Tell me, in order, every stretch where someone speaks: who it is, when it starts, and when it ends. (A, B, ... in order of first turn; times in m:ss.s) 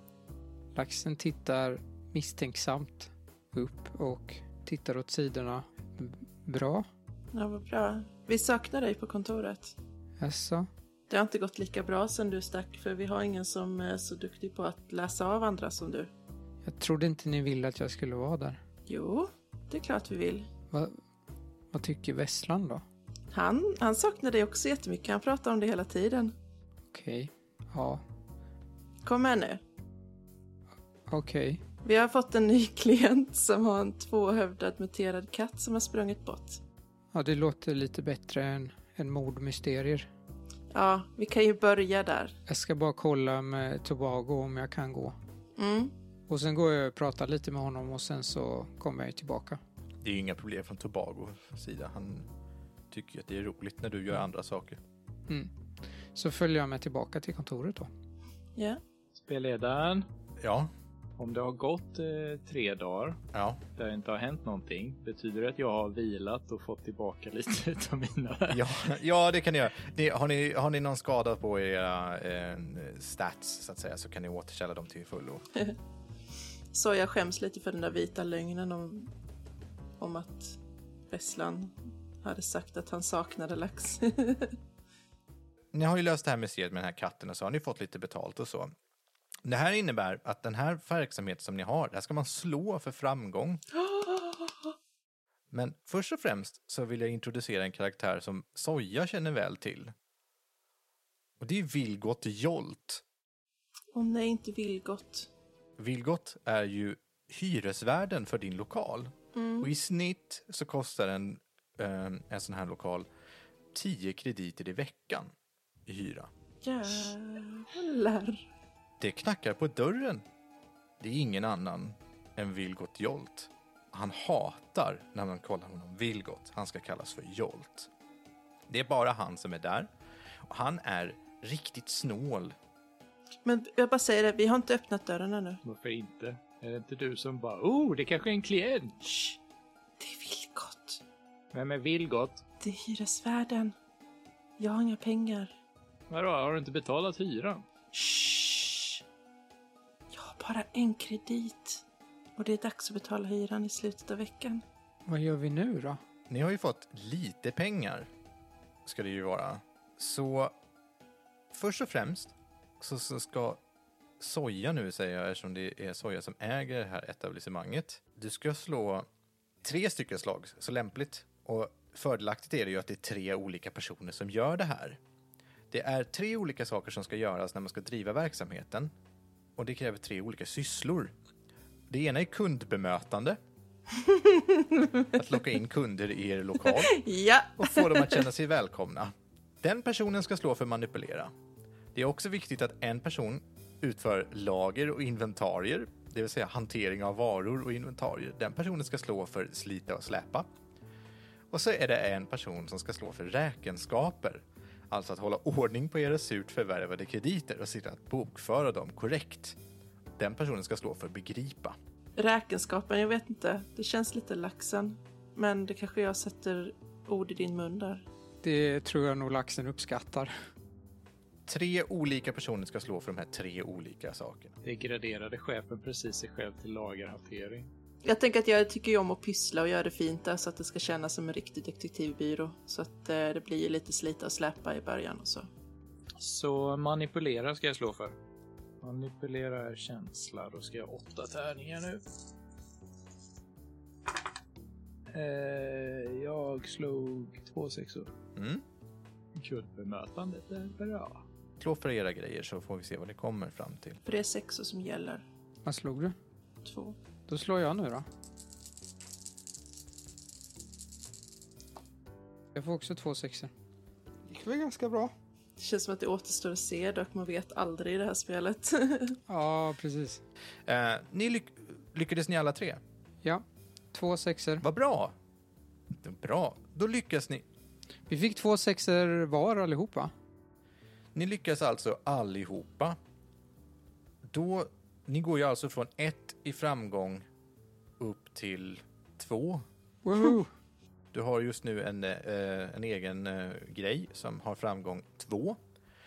0:00.7-0:06.9 A
0:07.3-0:09.7 B
0:10.2-0:10.7 A
0:11.1-0:16.1 B
0:16.6-0:18.6 A
0:18.9-0:20.5 B
0:20.7-0:21.0 A
0:21.7-0:22.8 A
0:23.3-0:26.3 B
0:26.9-0:28.0 A
0:29.0-0:29.6 B
0:31.1-0:31.6 A
0:31.8-0:36.6 B
0:37.1-0:40.1 A
0:40.7-0:42.3 B
0:42.5-0:45.1 A
0:45.6-0:45.9 B
0:46.3-0:49.6 A
0:50.0-0:52.3 C
0:52.9-0:54.8 C
0:56.1-0:57.9 A
0:59.1-1:00.0 D
1:00.4-1:00.7 C
1:01.2-1:03.2 D
1:03.3-1:03.6 C
1:03.8-1:08.8 D
1:08.5-1:15.4 C
1:16.7-1:19.1 B
1:20.0-1:20.6 B
1:21.1-1:24.5 B
1:25.7-1:28.7 C
1:29.4-1:33.6 C
1:33.7-1:34.7 B
1:35.5-1:39.9 C
1:41.4-1:43.0 C
1:43.9-1:45.3 B
1:45.8-1:53.0 C
1:49.3-1:49.7 B
1:53.7-1:55.3 C
1:55.8-1:56.3 C
1:56.6-1:58.4 B
1:59.0-2:00.2 C
2:01.0-2:07.9 C
2:08.7-2:09.9 C
2:10.4-2:12.5 C
2:13.4-2:15.6 B
2:15.6-2:19.0 D
2:19.0-2:19.4 B
2:20.0-2:21.0 B
2:21.5-2:22.4 D
2:22.6-2:23.7 B
2:24.6-2:25.5 B
2:26.1-2:27.6 D
2:27.9-2:29.0 B
2:30.1-2:31.8 B
2:32.4-2:34.6 B
2:35.1-2:36.0 A
2:36.3-2:38.1 C
2:38.8-2:40.5 C
2:41.5-2:43.6 C
2:44.2-2:49.1 C
2:49.6-2:55.0 C
2:55.7-2:58.9 C
2:59.6-3:01.1 C
3:01.9-3:03.4 C
3:03.9-3:05.2 B
3:05.1-3:07.0 C
3:06.7-3:08.2 B
3:07.6-3:11.3 C
3:11.9-3:20.5 C
3:21.5-3:29.6 C
3:30.2-3:31.8 C
3:32.2-3:38.0 B
3:38.4-3:40.3 A
3:41.4-3:44.5 C
3:44.6-3:47.7 D
3:48.0-3:55.5 B
3:56.2-3:58.1 D
3:58.8-4:02.0 D
4:05.1-4:08.1 D
4:08.4-4:08.6 C
4:09.4-4:11.2 D
4:11.6-4:14.0 C
4:14.0-4:15.2 B
4:15.6-4:16.1 A
4:16.6-4:17.0 B
4:17.3-4:18.0 A
4:22.5-4:23.5 A
4:24.2-4:25.1 A
4:25.6-4:29.2 B
4:29.3-4:30.2 A
4:30.6-4:32.8 C
4:33.2-4:34.6 A
4:34.6-4:35.1 C
4:35.9-4:37.4 C
4:38.1-4:40.1 A
4:41.1-4:43.0 C
4:44.3-4:47.2 C
4:48.0-4:49.6 C
4:50.0-4:50.5 A
4:51.1-4:55.6 C